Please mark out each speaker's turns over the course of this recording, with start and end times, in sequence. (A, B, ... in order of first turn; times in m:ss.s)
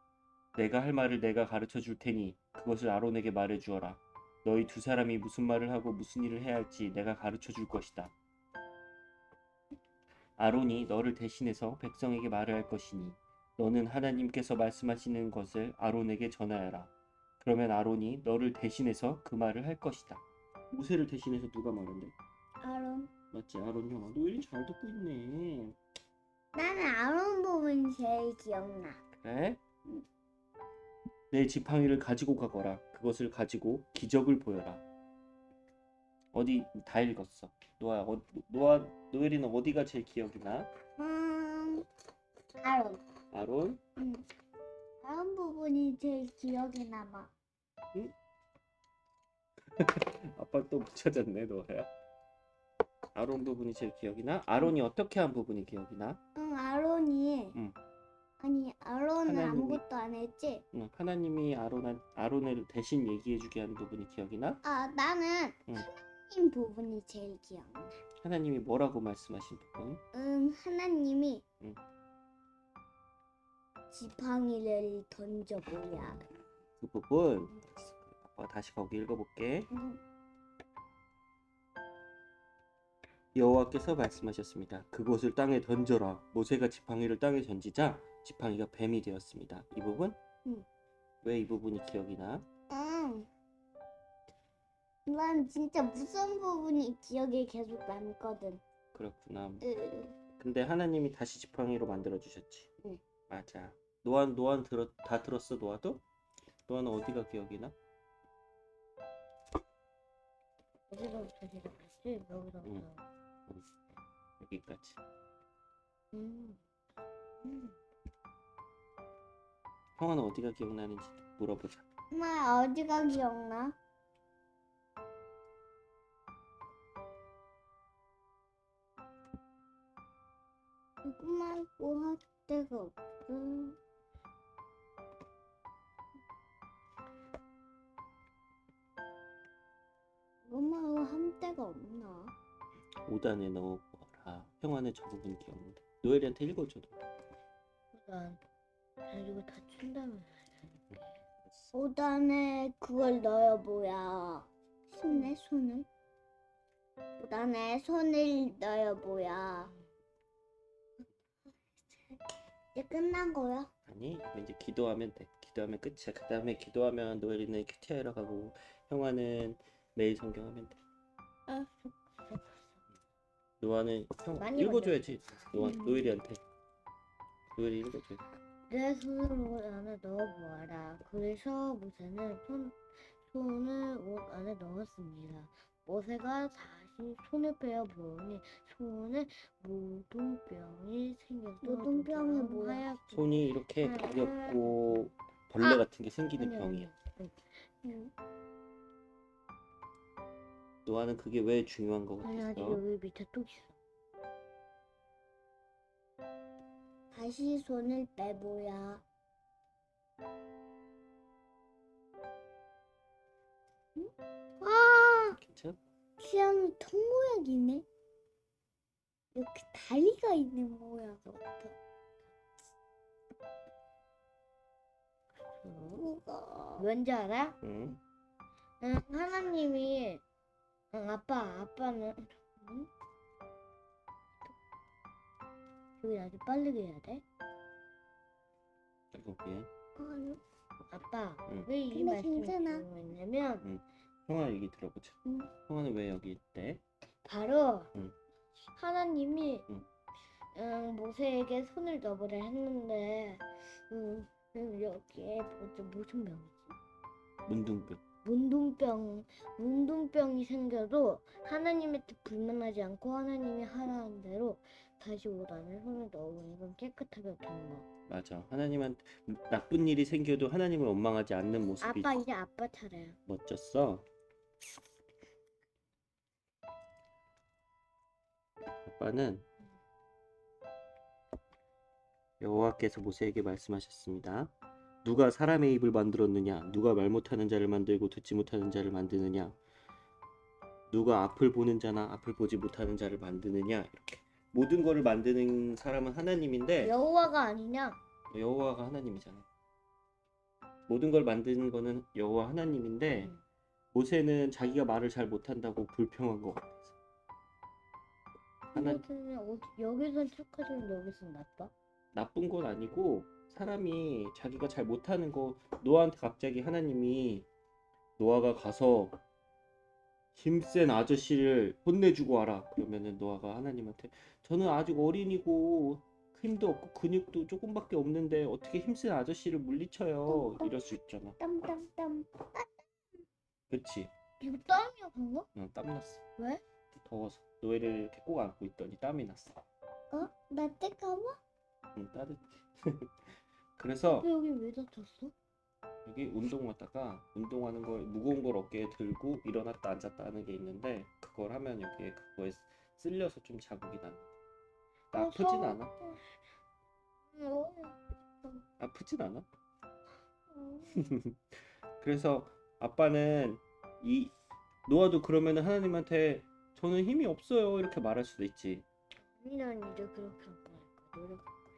0:00.5-0:08.1 A
0:10.4-0:22.1 A
0:22.6-0:23.1 B
0:23.3-0:25.8 A
0:26.5-0:29.0 B
0:29.1-0:29.6 A
0:31.3-0:34.8 A
0:36.3-0:40.7 A
0:41.0-0:41.8 B
0:42.6-0:43.0 B
0:43.3-0:43.8 A
0:44.0-0:44.2 B
0:45.0-0:47.3 B
0:49.8-0:51.9 A
0:53.1-0:56.2 A
0:56.3-0:57.6 B
0:58.4-1:00.6 B
0:59.2-0:59.8 A
1:00.7-1:04.6 A
1:04.6-1:07.9 B
1:08.2-1:10.0 A
1:10.1-1:11.4 B
1:13.9-1:16.2 B
1:16.8-1:19.7 A
1:19.7-1:20.0 B
1:23.3-1:30.2 A
1:31.2-1:32.4 A
1:32.7-1:33.3 B
1:35.1-1:38.6 B
1:38.9-1:39.6 A
1:39.6-1:40.2 B
1:40.4-1:42.7 A
1:43.3-1:46.0 A
1:46.7-1:47.7 A
1:50.9-1:53.0 C
1:54.4-1:55.0 A
1:56.1-1:56.6 C
1:57.4-1:57.7 C
2:00.0-2:01.8 A
2:02.1-2:03.8 B
2:11.0-2:13.8 B
2:20.4-2:22.3 B
2:23.0-2:27.0 A
2:27.9-2:28.4 C
2:29.0-2:31.2 C
2:31.4-2:31.7 A
2:31.7-2:35.9 B
2:35.1-2:35.3 C
2:37.2-2:39.7 B
2:42.7-2:43.7 B
2:43.9-2:50.8 A
2:53.6-2:56.4 A
2:54.4-2:55.9 C
2:57.6-2:58.2 A
2:58.7-3:02.8 C
3:03.3-3:15.1 C
3:11.6-3:12.9 B
3:13.1-3:16.9 A
3:16.4-3:17.4 C
3:17.8-3:18.1 B
3:20.8-3:22.8 A
3:22.2-3:23.7 C
3:27.1-3:29.0 B
3:34.6-3:35.4 B
3:35.3-3:35.8 A
3:36.2-3:37.8 B
3:39.3-3:41.7 B
3:45.6-3:46.1 C
3:46.0-3:46.8 B
3:46.8-3:47.6 C
3:47.6-3:48.0 A
3:48.8-3:50.2 C
3:50.9-3:52.9 C
3:56.0-3:57.2 C
3:59.1-3:59.7 A
4:00.0-4:00.4 B
4:00.9-4:03.6 C
4:01.9-4:02.8 B
4:03.6-4:06.8 A
4:07.2-4:07.9 C
4:08.7-4:09.7 C
4:10.5-4:16.7 C
4:17.4-4:18.0 A
4:18.2-4:27.8 C
4:28.1-4:32.2 A
4:31.8-4:33.2 C
4:33.3-4:34.0 A
4:38.8-4:39.4 A
4:42.4-4:44.5 A
4:45.0-4:49.6 A
4:50.9-4:56.9 A
4:56.8-4:58.0 C
4:58.3-4:59.4 A
5:00.9-5:03.3 A
5:03.9-5:06.9 A
5:08.7-5:09.0 A
5:08.7-5:11.7 C
5:12.1-5:17.4 A
5:18.2-5:19.2 A
5:20.3-5:31.4 A
5:30.3-5:30.8 B
5:31.4-5:32.9 B
5:33.7-5:34.1 A
5:34.4-5:35.5 C
5:35.5-5:36.2 A
5:36.9-5:39.5 A
5:40.1-5:41.4 B
5:41.9-5:44.3 A
5:44.1-5:45.3 C
5:46.0-5:54.3 A
5:55.1-5:55.9 A
5:55.1-5:56.2 C
5:57.3-5:58.6 C
5:58.8-5:59.4 A
6:00.5-6:01.1 C
6:00.9-6:01.4 A
6:02.0-6:04.3 A
6:04.9-6:08.8 A
6:09.4-6:11.5 C